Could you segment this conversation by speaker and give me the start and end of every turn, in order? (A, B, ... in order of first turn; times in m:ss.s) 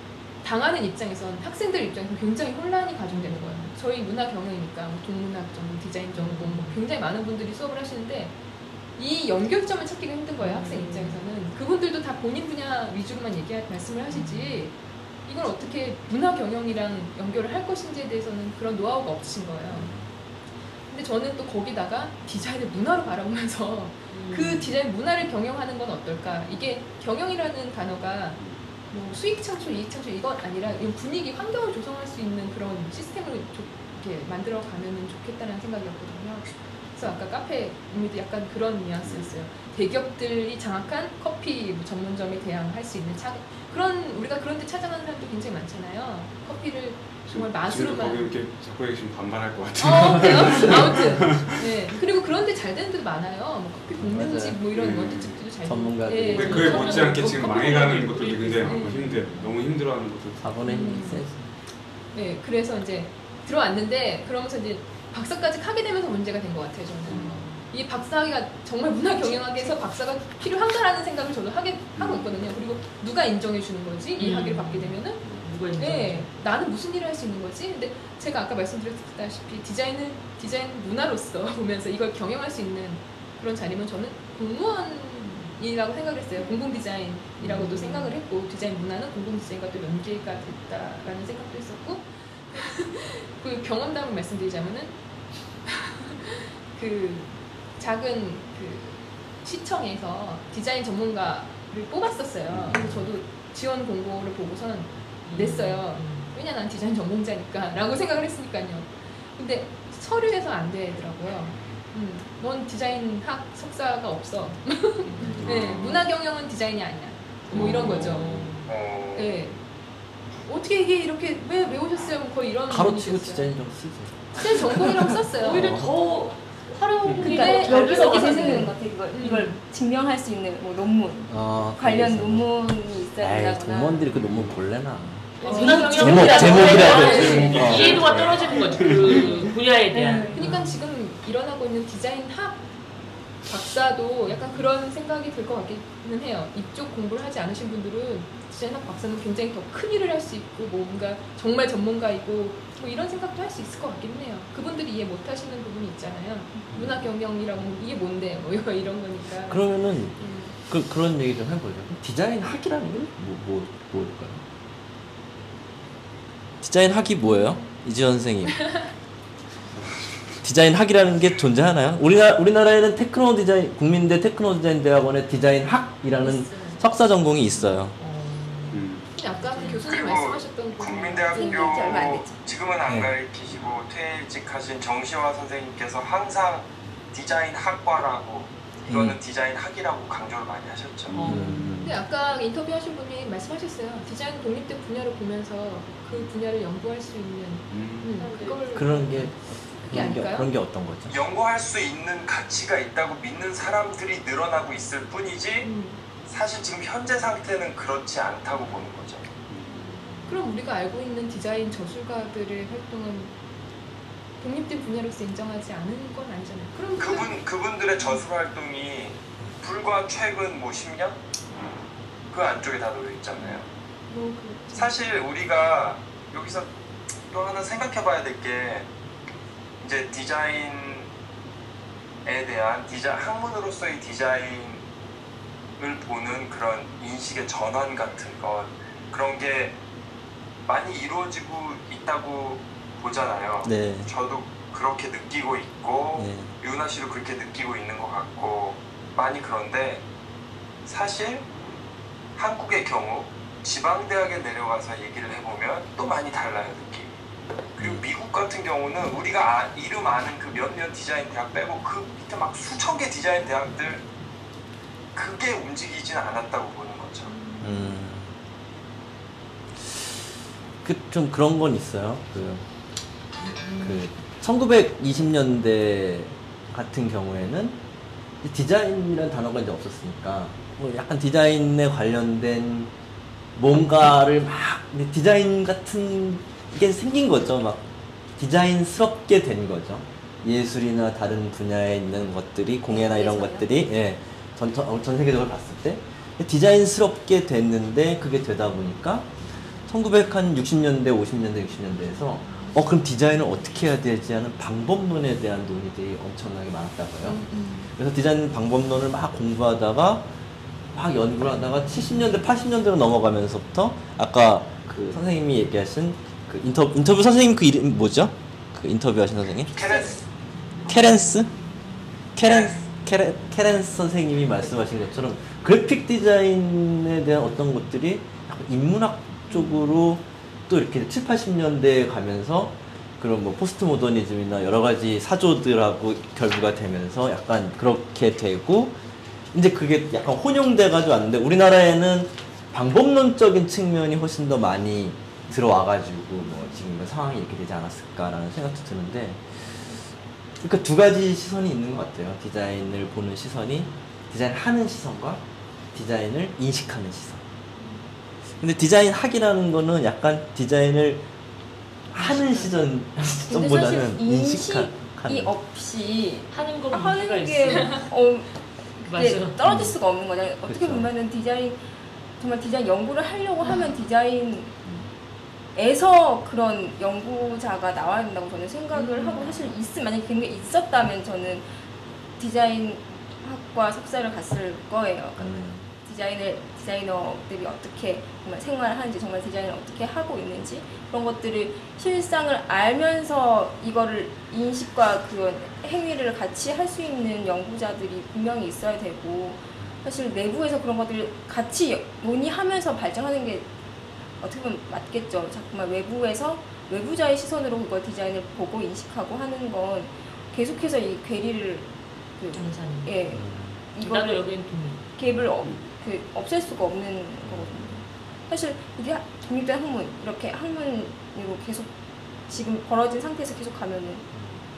0:00.4-0:08.4 A
0:03.1-0:03.7 B
0:06.2-0:06.8 B
0:09.0-0:19.9 A
0:10.4-0:11.2 B
0:14.1-0:14.6 B
0:19.7-0:20.1 C
0:20.9-0:48.4 A
0:24.1-0:24.7 B
0:28.4-0:28.6 D
0:39.0-0:39.4 D
0:47.2-0:52.0 D
0:49.8-0:59.1 A
0:54.0-0:54.6 C
0:54.7-0:55.4 D
0:55.6-0:56.7 C
0:56.3-1:00.5 D
0:56.3-0:57.2 B
0:58.7-0:59.5 C
1:00.4-1:01.5 C
1:00.6-1:01.2 A
1:02.1-1:15.2 A
1:07.1-1:07.5 C
1:07.1-1:07.6 B
1:09.2-1:09.7 B
1:14.2-1:16.3 B
1:15.8-1:35.0 A
1:27.4-1:27.7 C
1:27.4-1:28.1 B
1:35.6-1:58.6 A
1:42.5-1:42.8 D
1:42.7-1:43.0 C
1:45.3-1:46.3 B
1:55.0-1:56.1 C
1:55.2-1:55.5 B
1:57.5-1:58.6 C
1:57.6-1:58.7 B
1:58.7-1:59.4 E
1:59.1-1:59.6 A
2:00.4-2:03.6 A
2:02.7-2:05.9 C
2:04.4-2:05.8 A
2:05.4-2:08.7 B
2:07.0-2:07.3 D
2:07.2-2:09.6 A
2:07.2-2:14.2 F
2:11.3-2:12.5 C
2:13.2-2:18.8 C
2:14.1-2:14.5 D
2:15.4-2:19.4 F
2:15.4-2:17.7 A
2:15.4-2:20.7 B
2:17.2-2:19.5 D
2:19.9-2:20.6 F
2:20.3-2:22.6 A
2:23.4-2:40.6 A
2:36.7-2:37.0 C
2:39.5-2:44.4 C
2:46.6-2:48.8 C
2:47.2-2:47.7 A
2:50.4-2:58.0 C
2:57.5-2:58.8 B
2:58.7-2:59.1 D
2:59.1-3:02.0 A
2:59.4-2:59.8 B
2:59.8-3:11.3 E
3:01.3-3:02.4 F
3:02.8-3:03.1 C
3:08.9-3:09.2 C
3:11.0-3:11.9 D
3:11.1-3:11.7 B
3:11.2-3:12.0 C
3:11.8-3:20.5 A
3:17.7-3:18.2 D
3:18.2-3:19.3 B
3:18.7-3:21.2 C
3:21.1-3:29.3 E
3:25.6-3:26.0 A
3:29.5-3:29.9 D
3:29.7-3:33.4 A
3:34.4-3:37.4 A
3:37.0-3:41.2 E
3:38.0-3:38.2 A
3:42.3-3:43.7 E
3:44.1-3:45.0 A
3:44.7-3:46.7 E
3:47.3-3:48.9 E
3:49.8-3:51.1 E
3:52.2-3:54.8 E
3:55.8-3:59.8 E
4:00.6-4:10.0 E
4:03.6-4:04.1 C
4:06.2-4:06.5 C
4:10.8-4:11.5 E
4:12.4-4:17.1 E
4:17.7-4:24.0 E
4:17.8-4:18.0 C
4:25.1-4:27.3 E
4:27.3-4:27.7 A
4:27.6-4:28.3 C
4:29.8-4:30.1 C
4:30.8-4:32.6 C
4:33.8-4:37.8 C
4:38.4-4:42.9 C
4:43.6-4:47.8 C
4:48.4-4:59.3 C
4:52.9-4:53.7 F
4:59.9-5:07.4 C
5:02.4-5:02.8 A
5:07.2-5:07.9 A
5:08.0-5:10.3 C
5:10.9-5:19.7 C
5:19.7-5:20.2 E
5:20.8-5:21.5 C
5:22.4-5:39.0 C
5:22.4-5:22.8 E
5:29.6-5:29.9 B
5:39.5-5:49.4 C
5:50.6-5:55.4 C
5:55.9-5:57.4 C
5:58.6-6:01.3 C
6:02.1-6:05.5 C
6:02.2-6:02.7 B
6:03.5-6:11.8 F
6:06.5-6:08.1 B
6:09.0-6:09.6 B
6:09.6-6:10.0 C
6:10.6-6:11.1 C
6:12.4-6:14.8 F
6:15.7-6:21.7 F
6:18.9-6:19.6 B
6:22.4-6:43.7 F
6:25.4-6:25.9 C
6:44.4-6:54.5 F
6:52.5-6:53.1 B
6:53.3-6:53.8 C
6:54.0-6:55.0 B
6:55.2-7:01.9 F
6:55.6-6:55.9 D
6:57.4-6:57.7 C
7:02.5-7:04.3 F